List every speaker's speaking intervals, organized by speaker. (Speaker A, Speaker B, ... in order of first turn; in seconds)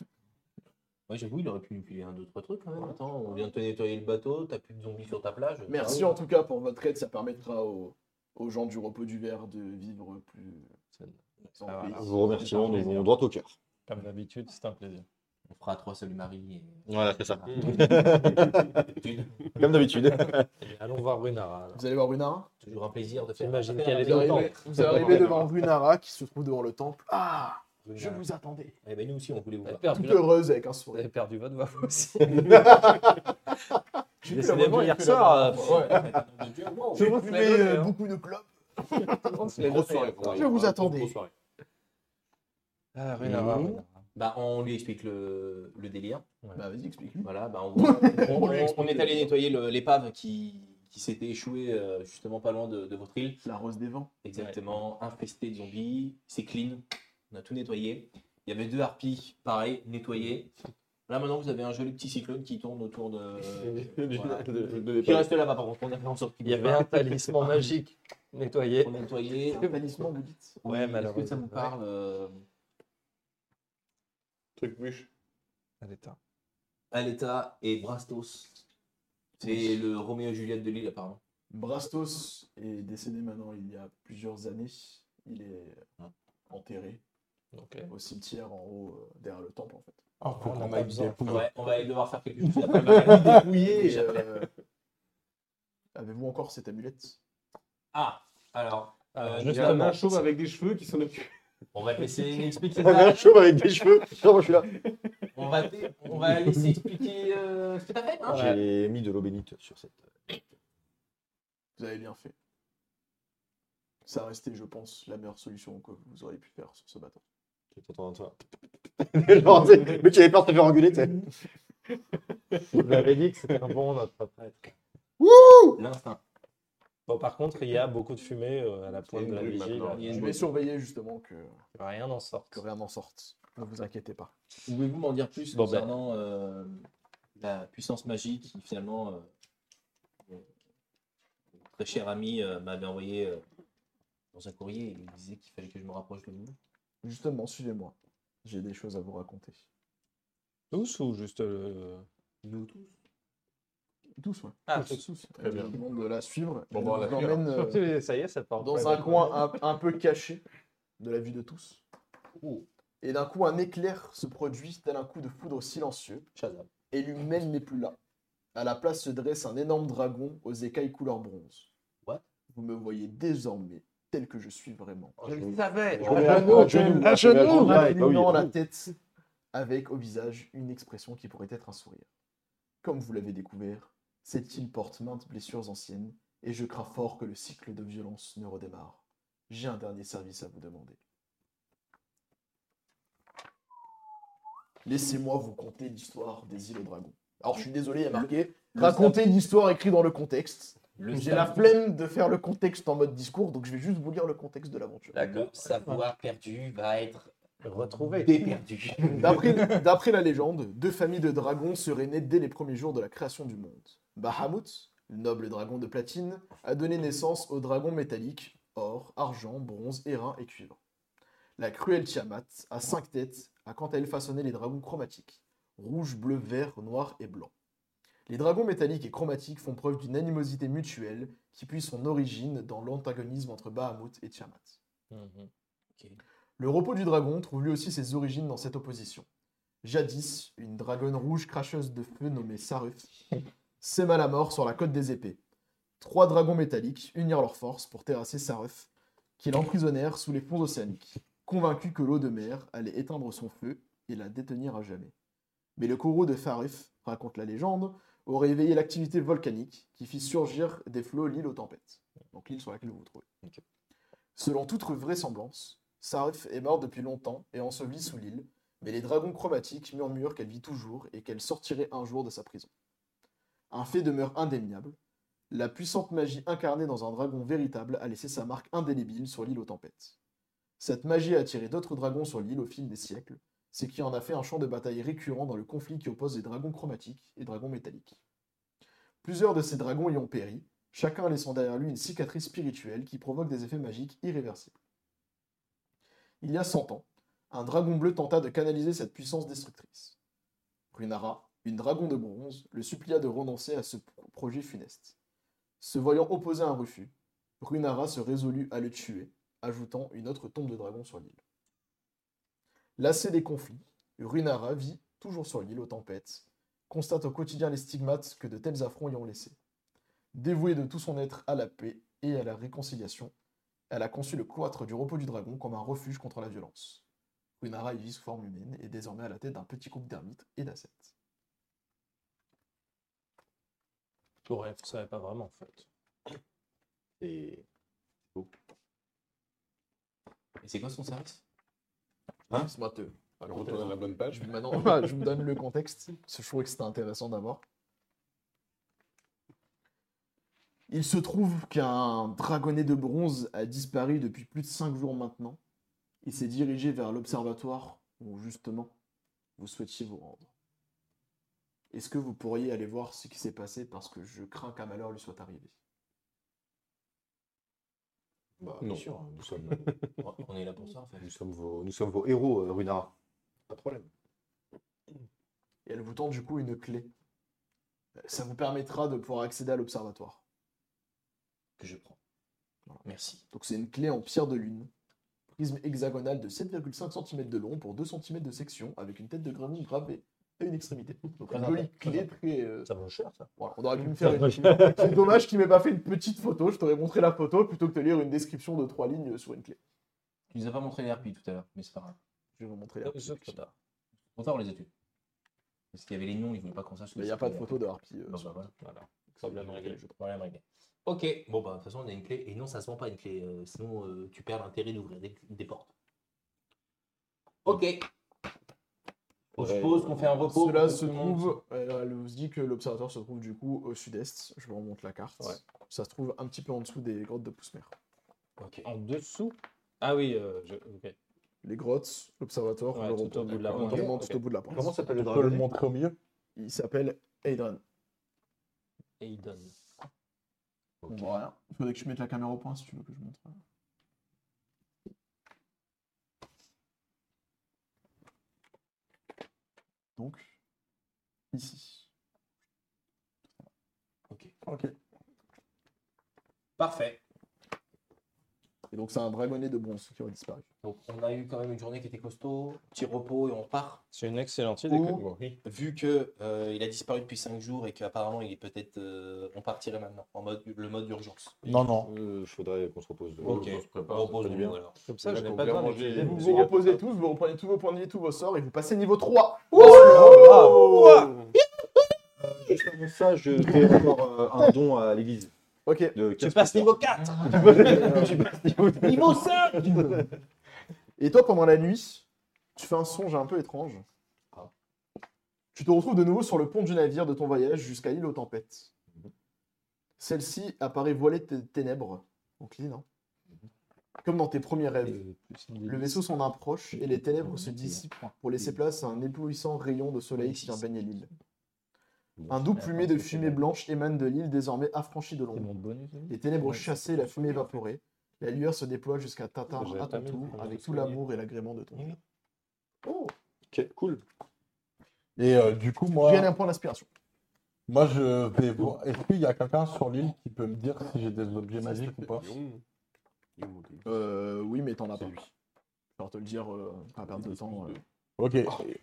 Speaker A: 1.1-6.2, 12.5-13.0, 15.5-19.5, 22.6-25.5, 27.8-28.2, 28.8-30.1, 35.5-37.1, 43.2-46.2, 47.2-53.4, 54.2-60.5, 61.1-67.8, 68.8-69.8, 70.6-72.4, 76.9-78.6, 79.4-81.2, 91.2-94.5, 97.9-100.1, 101.7-103.6, 105.3-108.6, 125.8-126.2, 129.9-130.5, 134.7-139.3, 141.6-143.4, 144.3-146.6, 152.4-152.9, 162.4-162.7, 166.3-166.7, 175.2-177.0, 198.1-199.2, 201.0-201.7, 205.2-207.3, 208.2-209.8, 340.6-341.4, 370.2-371.3, 381.8-382.2, 383.1-383.4, 391.4-392.3, 400.5-402.2, 404.4-404.9, 405.9-408.7, 409.6-415.9, 417.6-418.1, 419.6-421.4, 456.8-457.2, 460.8-464.0, 464.9-471.7, 473.4-475.0, 487.2-488.2, 489.0-490.0, 507.4-508.0, 510.4-510.8, 512.8-513.6
Speaker B: 5.7-10.7, 11.6-12.9, 21.8-22.5, 24.0-28.8, 29.9-31.1, 34.2-36.1, 37.0-39.6, 40.2-41.2, 46.6-49.4, 53.4-54.1, 69.5-70.6, 79.4-79.7, 81.5-85.9, 86.5-87.0, 87.9-90.0, 92.8-94.5, 95.9-97.2, 111.8-112.3, 114.0-117.2, 130.1-131.6, 132.5-134.3, 147.0-149.6, 154.2-157.8, 158.6-160.4, 161.0-161.8, 163.0-166.3, 166.9-168.0, 168.6-171.7, 172.5-175.2, 176.0-179.0, 179.5-182.1, 182.8-191.0, 194.8-205.2, 209.2-220.8, 221.6-227.5, 228.3-234.8, 236.6-239.3, 239.8-243.1, 243.8-245.4, 246.0-255.1, 255.8-263.3, 264.4-272.7, 273.7-275.0, 275.5-280.2, 280.8-288.2, 289.2-294.8, 296.4-300.2, 300.9-305.2, 305.8-311.4, 313.0-319.6, 320.3-323.3, 323.9-327.1, 327.6-331.1, 342.5-347.6, 350.9-355.6, 356.2-358.9, 359.6-360.5, 361.9-365.8, 375.9-377.1, 378.2-380.4, 382.9-384.9, 385.5-392.9, 393.6-399.8, 402.6-403.6, 407.1-408.5, 409.4-410.1, 420.4-427.9, 431.6-434.9, 436.6-437.8, 441.1-443.6, 450.2-450.6, 451.5-452.1, 458.9-460.7, 476.1-480.8, 485.9-486.2, 487.5-488.4, 491.2-494.0, 495.7-498.9, 500.2-503.1, 504.2-505.2, 505.9-511.3, 512.5-515.7, 516.3-522.2, 526.2-527.1, 534.0-535.5, 536.2-538.0
Speaker C: 10.9-13.0, 13.9-15.1, 20.6-21.8, 23.4-24.8, 29.6-30.3, 30.9-32.7, 34.3-36.1, 36.9-38.0, 39.2-40.5, 43.0-44.0, 66.4-69.0, 70.7-71.8, 75.8-76.2, 87.5-87.9, 90.3-91.3, 99.1-100.2, 108.3-108.6, 122.7-124.7, 127.1-130.2, 131.8-132.6, 135.5-135.9, 150.7-152.1, 154.7-155.1, 157.5-159.5, 175.3-177.9, 205.1-205.7, 207.6-208.6, 235.1-235.5, 334.4-335.9, 392.9-393.5, 394.2-395.1, 403.0-403.7, 408.8-410.0, 428.8-431.1, 432.9-434.4, 439.2-439.7, 464.1-465.2, 475.1-476.4, 486.4-488.1, 505.0-506.2, 515.5-517.6, 519.7-521.2
Speaker D: 11.9-13.6, 16.9-18.9, 19.6-20.5, 32.5-33.1, 102.8-104.8, 108.3-110.4, 117.7-118.4, 119.0-121.3, 122.7-123.1, 125.2-125.8, 175.3-178.5, 337.2-337.6, 368.6-370.0, 371.2-373.1, 373.7-374.1, 394.4-394.8, 419.6-420.4, 428.6-428.9, 433.7-435.7, 441.0-441.3, 472.0-473.7, 474.4-474.8, 479.7-481.3, 482.4-485.5, 486.1-490.2, 512.4-512.6, 523.0-524.2
Speaker E: 17.5-18.6, 24.9-25.4, 39.4-41.3, 63.4-65.3, 74.6-75.1, 99.4-101.3, 129.1-130.4, 155.4-155.8, 156.7-157.5, 343.4-345.0, 368.8-369.1, 369.7-370.1, 465.0-465.6, 473.4-474.7, 475.2-477.0, 480.4-481.5, 531.8-532.8, 533.6-534.1, 537.3-538.0
Speaker F: 90.2-91.5, 92.5-93.4, 435.1-436.2, 454.7-454.9, 471.6-472.1, 525.4-526.5, 527.9-532.5, 538.4-538.8